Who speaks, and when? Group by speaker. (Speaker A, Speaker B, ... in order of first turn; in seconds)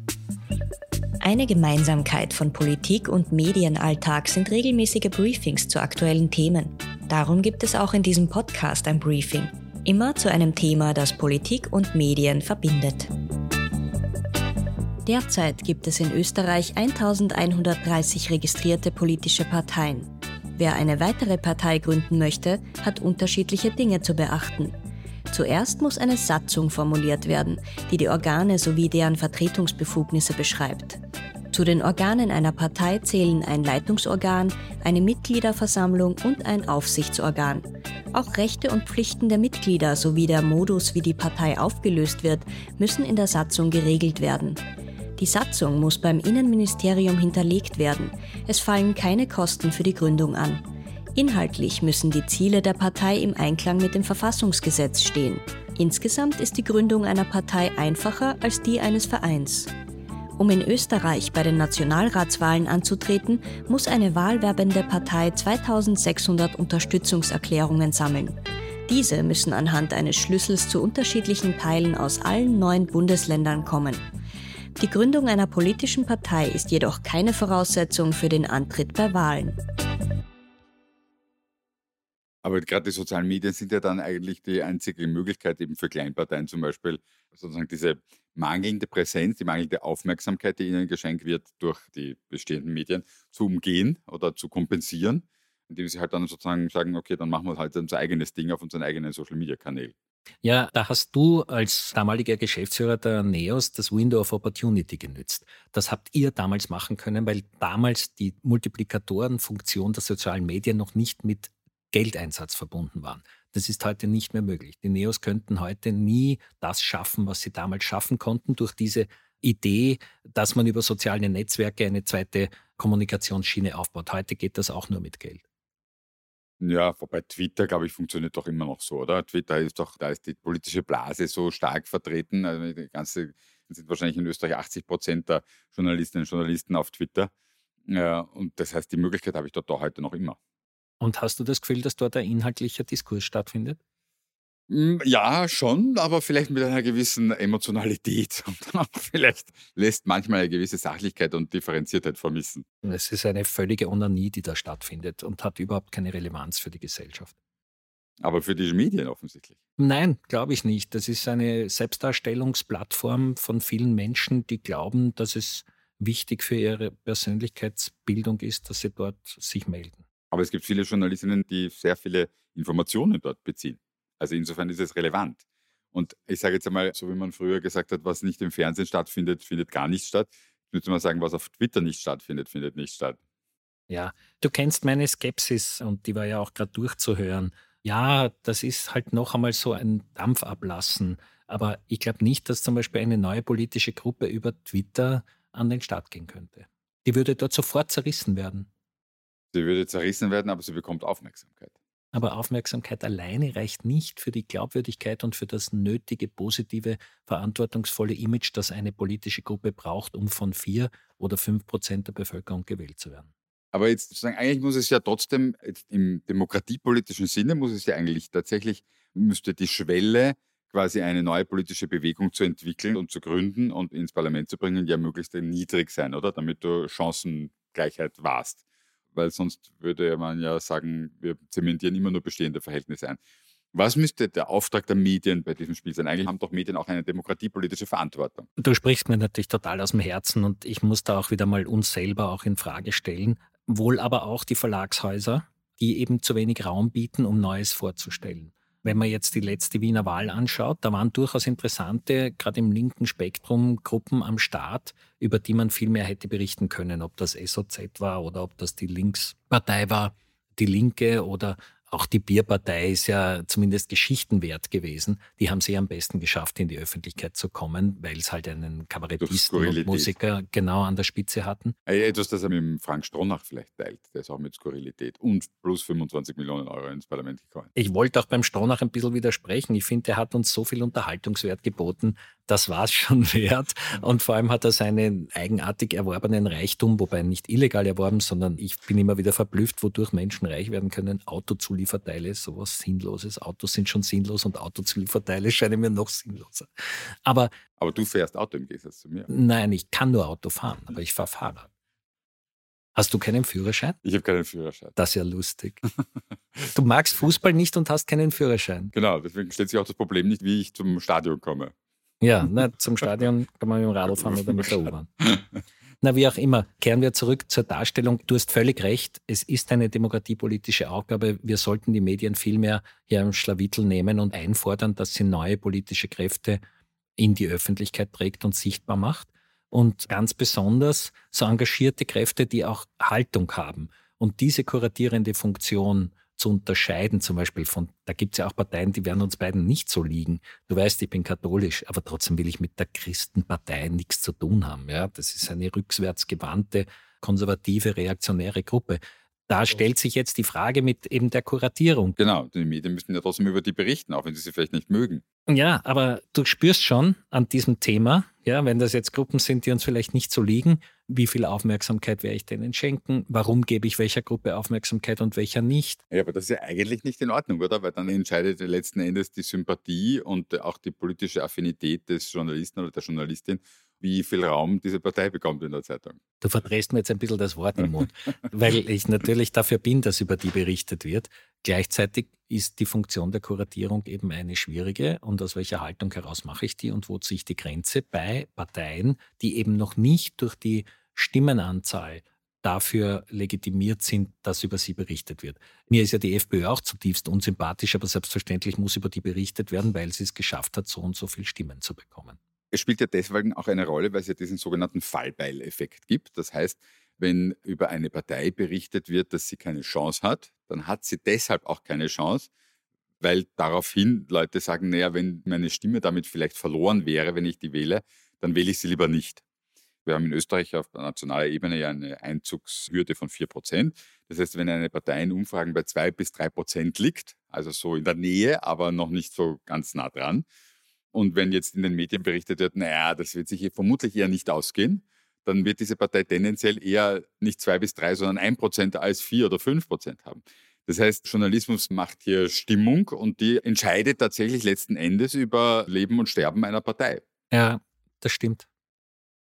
Speaker A: 1.2-13.1, 15.1-24.7, 25.3-31.0, 31.5-44.6, 45.2-50.6, 51.1-59.7, 60.4-68.3, 68.9-74.0, 74.8-79.6
Speaker B: 82.4-99.9, 126.6-137.3, 137.9-140.4, 144.7-152.6, 158.2-159.6, 170.3-183.2, 199.5-201.7, 213.7-228.6, 229.1-233.2, 233.7-238.5, 269.2-270.1, 271.9-277.7, 297.8-299.3, 304.0-304.9, 308.9-311.7, 314.1-315.4, 352.2-355.2, 366.1-376.2, 402.7-412.5, 413.2-419.4, 420.0-430.4, 431.1-447.2
Speaker C: 100.4-125.4, 141.0-143.8, 152.8-157.3, 159.8-170.0, 183.9-198.7, 202.1-213.3, 238.6-271.8, 277.7-297.5, 299.3-301.7, 302.9-304.0, 304.9-305.8, 306.7-308.9, 312.2-315.1, 316.0-326.6, 327.2-352.2, 355.5-366.0, 376.4-402.4, 447.5-448.7